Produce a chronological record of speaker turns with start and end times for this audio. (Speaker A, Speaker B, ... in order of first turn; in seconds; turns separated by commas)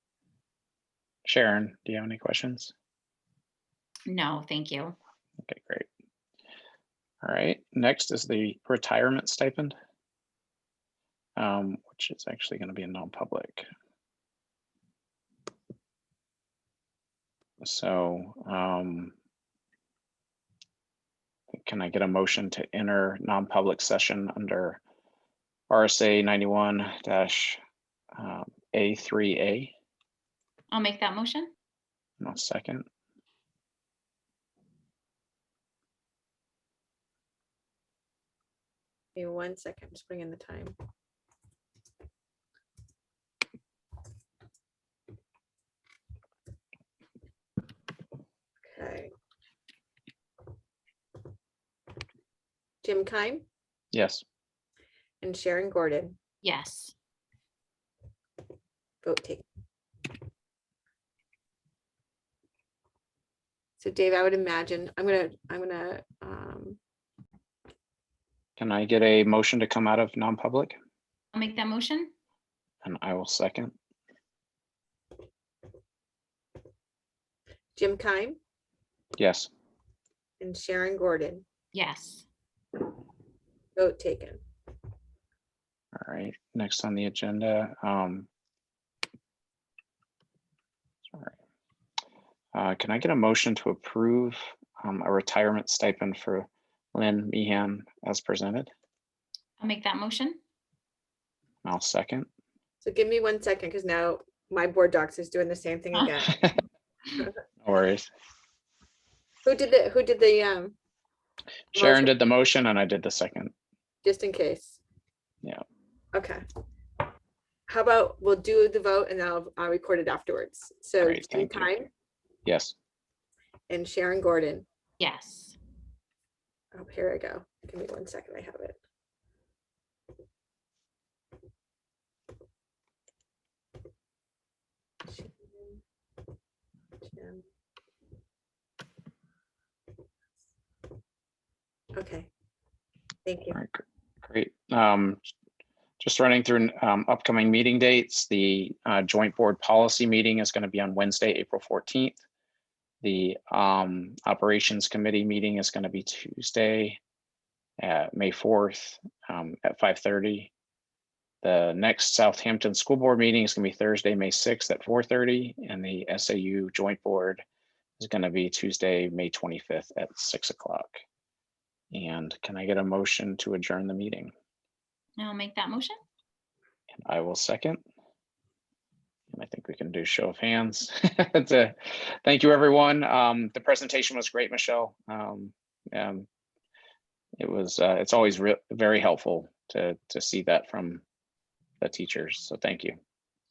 Speaker A: 1.2-2.7, Speaker B: 4.1-5.0, Speaker A: 5.5-5.9, Speaker A: 7.2-9.7, Speaker A: 11.4-13.7, Speaker A: 17.6-19.1, Speaker A: 21.5-24.8, Speaker A: 25.7-27.6, Speaker A: 28.2-29.7, Speaker B: 30.7-31.5, Speaker A: 32.2-32.9, Speaker C: 39.2-40.8, Speaker C: 48.7-49.1, Speaker C: 52.8-53.5, Speaker A: 53.9-54.2, Speaker C: 55.2-56.2, Speaker B: 56.4-56.9, Speaker C: 59.0-59.5, Speaker C: 63.8-66.8, Speaker A: 68.6-70.8, Speaker B: 71.3-72.1, Speaker A: 72.8-73.8, Speaker C: 77.8-78.4, Speaker A: 79.2-79.5, Speaker C: 80.4-81.5, Speaker B: 81.7-82.3, Speaker C: 83.8-84.4, Speaker A: 86.0-88.3, Speaker A: 92.5-98.7, Speaker B: 99.6-100.4, Speaker A: 101.7-102.3, Speaker C: 102.8-106.3, Speaker A: 106.3-106.6, Speaker A: 107.6-108.1, Speaker C: 109.5-110.8, Speaker A: 111.7-113.5, Speaker C: 111.8-112.1, Speaker C: 114.0-114.8, Speaker C: 116.1-116.4, Speaker C: 117.7-121.9, Speaker A: 121.0-121.8, Speaker A: 122.5-122.8, Speaker C: 123.7-124.7, Speaker B: 125.0-125.6, Speaker C: 126.7-128.8, Speaker C: 135.1-135.8, Speaker C: 137.0-137.4, Speaker C: 141.9-142.3, Speaker C: 143.3-143.6, Speaker A: 143.5-145.2, Speaker A: 146.0-152.2, Speaker A: 153.0-157.0, Speaker A: 157.8-160.5, Speaker A: 161.4-167.4, Speaker A: 168.0-171.0, Speaker A: 171.9-174.3, Speaker B: 175.2-176.0, Speaker A: 177.0-177.8, Speaker A: 179.3-186.3, Speaker A: 187.4-191.0, Speaker A: 191.8-193.0